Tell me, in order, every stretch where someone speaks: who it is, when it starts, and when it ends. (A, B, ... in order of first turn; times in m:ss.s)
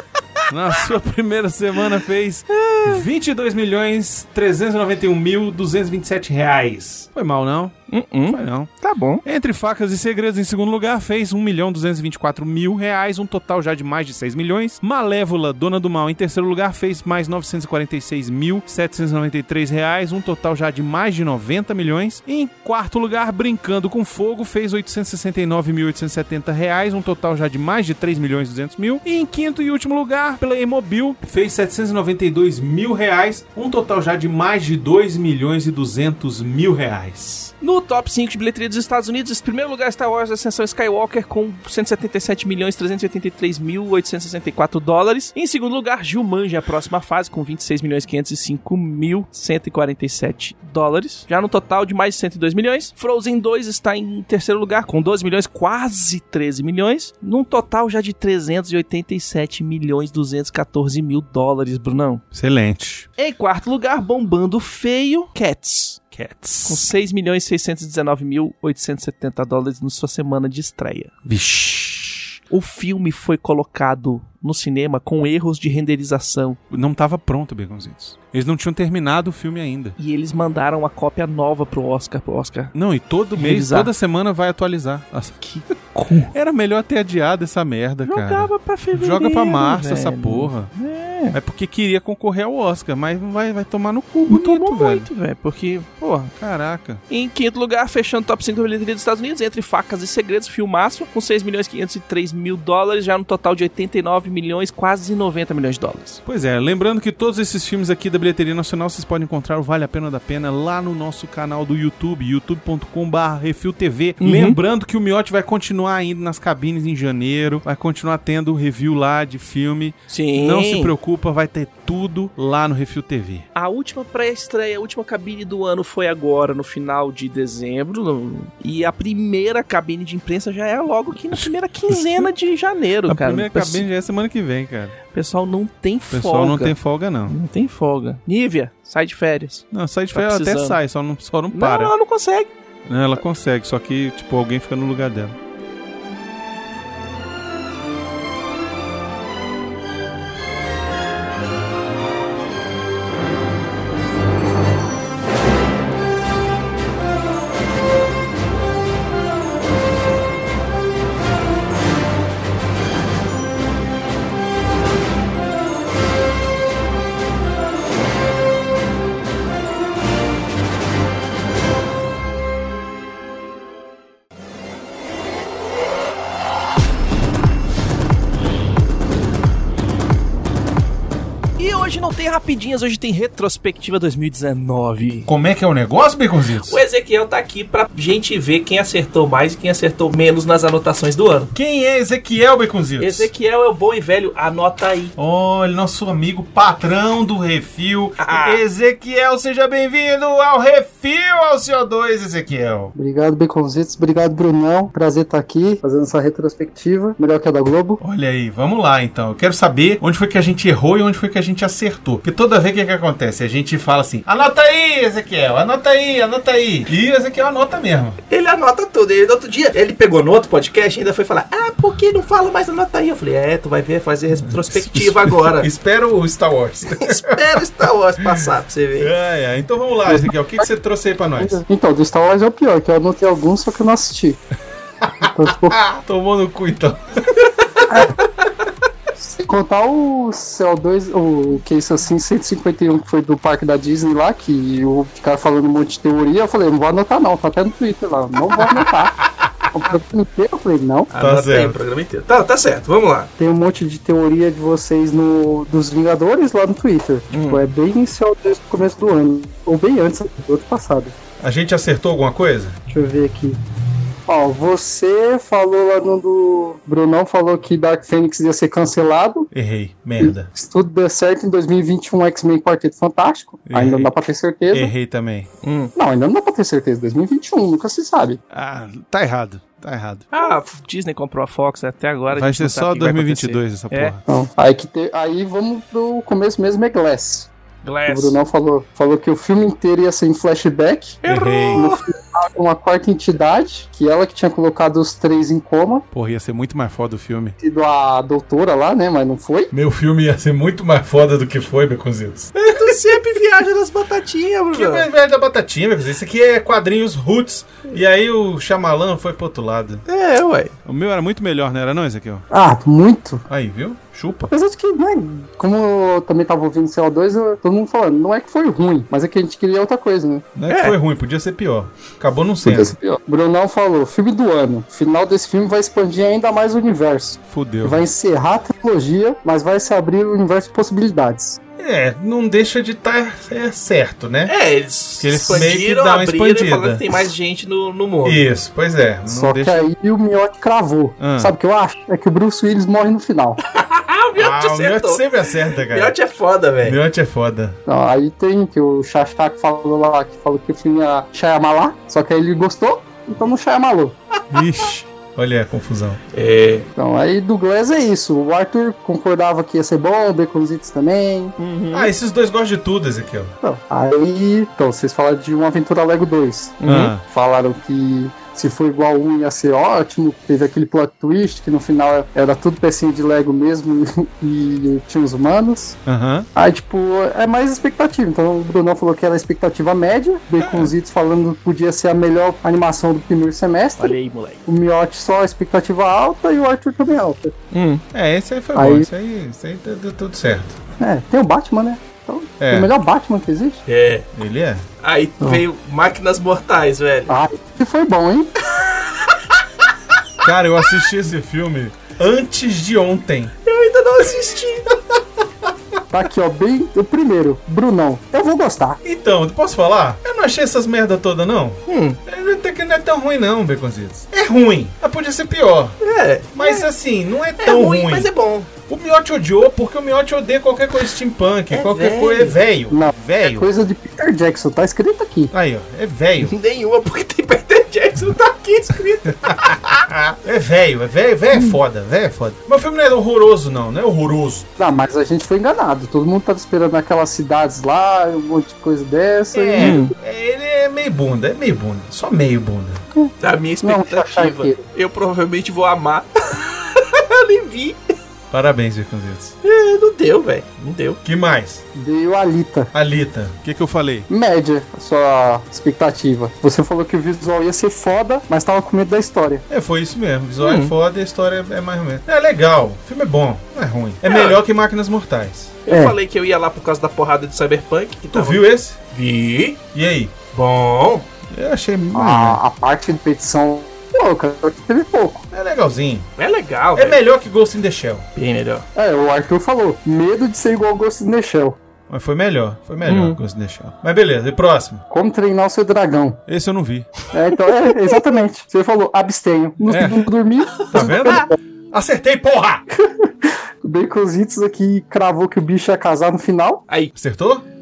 0:00.5-0:37.5 A
0:02.5-0:03.0 B
0:07.9-0:09.2 B
0:37.6-1:02.2 B
1:02.3-1:03.1 A
1:03.2-1:06.0 B
1:06.1-1:06.9 A
1:06.7-1:11.1 B
1:11.2-1:12.4 A
1:12.5-1:16.6 B
1:16.7-1:20.0 A
1:20.0-1:22.7 B
1:22.7-1:25.4 A
1:23.4-1:23.9 B
1:25.4-1:26.3 B
1:26.3-1:30.7 A
1:28.1-1:31.4 B
1:31.3-1:35.1 A
1:34.3-1:36.3 B
1:36.4-1:37.0 A
1:37.1-1:46.2 B
1:46.3-2:03.5 A
1:54.2-1:54.6 B
2:00.1-2:00.9 B
2:03.6-2:13.8 B
2:11.4-2:12.3 A
2:13.1-2:15.0 A
2:15.1-2:16.8 B
2:16.1-2:17.4 A
2:17.3-2:20.8 B
2:19.7-2:21.9 A
2:21.5-2:22.5 B
2:22.9-2:25.4 A
3:01.6-3:05.3 B
3:05.3-3:06.8 A
3:06.6-3:11.5 B
3:11.6-3:13.3 A
3:13.0-3:15.2 B
3:15.2-3:22.9 A
3:18.2-3:18.6 B
3:23.0-3:28.0 C
3:28.0-3:38.2 A
3:38.3-3:45.7 B
3:44.4-3:47.4 A
3:47.0-3:49.1 B
3:48.2-3:48.5 A
3:49.0-3:51.6 A
3:51.4-3:54.4 C
3:55.0-3:58.0 A
3:55.2-3:55.8 C
3:57.9-3:58.2 C
3:59.2-4:09.2 C
4:09.7-4:11.1 C
4:11.1-4:13.3 B
4:11.2-4:11.8 A
4:13.4-4:21.2 C
4:17.3-4:17.6 B
4:21.4-4:22.8 A
4:22.9-4:23.6 C
4:24.3-4:29.5 C
4:29.5-4:30.5 A
4:30.2-4:34.9 C
4:33.7-4:34.1 A
4:34.7-4:35.5 A
4:35.6-4:35.9 B
4:36.0-4:38.4 C
4:38.5-4:40.3 A
4:40.3-4:44.1 B
4:42.3-4:44.2 A
4:44.3-4:47.5 C
4:47.8-4:48.4 B
4:48.1-4:51.2 C
4:51.2-4:52.0 B
4:51.3-4:51.9 A
4:51.7-4:56.0 C
4:56.1-4:57.6 A
4:57.6-4:59.7 C
4:59.7-5:03.0 A
5:02.6-5:05.1 B
5:04.7-5:10.0 A
5:10.1-5:10.7 B
5:10.8-5:12.5 A
5:12.5-5:13.4 C
5:13.5-5:14.5 A
5:14.5-5:20.4 C
5:20.6-5:23.0 A
5:20.7-5:21.0 B
5:22.6-5:31.6 C
5:27.5-5:28.0 A
5:31.8-5:34.5 A
5:34.5-5:38.4 B
5:35.2-5:37.1 A
5:38.2-5:39.9 A
5:39.3-5:43.6 C
5:41.2-5:41.5 A
5:43.6-5:47.0 B
5:44.4-5:46.2 A
5:46.8-5:47.8 A
5:47.9-5:54.2 C
5:54.5-5:56.2 A
5:56.3-5:56.9 B
5:57.0-6:01.6 C
6:01.6-6:02.1 B
6:01.9-6:03.5 A
6:03.6-6:16.0 C
6:06.8-6:07.1 B
6:06.9-6:07.2 A
6:16.1-6:16.5 A
6:16.6-6:24.1 C
6:20.6-6:20.9 A
6:24.0-6:24.6 B
6:24.7-6:27.5 C
6:27.7-6:28.0 B
6:28.1-6:30.8 A
6:28.8-6:29.1 C
6:31.0-6:33.8 C
6:32.6-6:32.9 A
6:33.9-6:34.3 B
6:34.4-6:34.8 A
6:35.0-6:37.3 B
6:37.3-6:38.6 C
6:40.4-6:43.5 A
6:43.6-6:45.0 B
6:46.1-6:49.0 C
6:49.0-6:56.0 A
6:51.9-6:52.2 B
6:56.0-6:56.9 B
6:56.5-6:58.3 A
6:57.6-6:58.7 B
6:58.9-7:03.7 A
7:01.7-7:02.6 B
7:02.9-7:05.5 C
7:05.5-7:06.5 A
7:06.4-7:09.9 B
7:09.5-7:14.7 A
7:14.8-7:20.1 C
7:19.5-7:23.0 A
7:19.8-7:20.1 B
7:23.1-7:24.8 C
7:23.4-7:28.0 B
7:28.5-7:29.6 A
7:29.6-7:31.2 B
7:31.2-7:31.8 A
7:32.0-7:32.9 C
7:32.9-7:34.3 A
7:34.3-7:39.6 C
7:39.7-7:45.8 A
7:40.6-7:40.9 B
7:44.2-7:44.6 B
7:45.9-7:49.8 B
7:45.9-7:46.2 C
7:48.3-7:49.0 A
7:49.9-7:50.3 A
7:50.5-7:51.3 B
7:51.5-7:52.6 A
7:52.1-7:55.5 C
7:55.5-7:56.3 A
7:56.4-7:57.2 B
7:57.0-7:58.3 A
7:58.4-7:58.8 B
7:59.0-8:01.8 C
8:02.1-8:05.0 A
8:03.1-8:03.4 B
8:05.1-8:06.4 C
8:06.5-8:07.1 A
8:07.3-8:11.6 C
8:09.8-8:10.3 A
8:10.8-8:11.1 B
8:10.9-8:12.8 A
8:13.0-8:16.8 C
8:17.2-8:17.6 A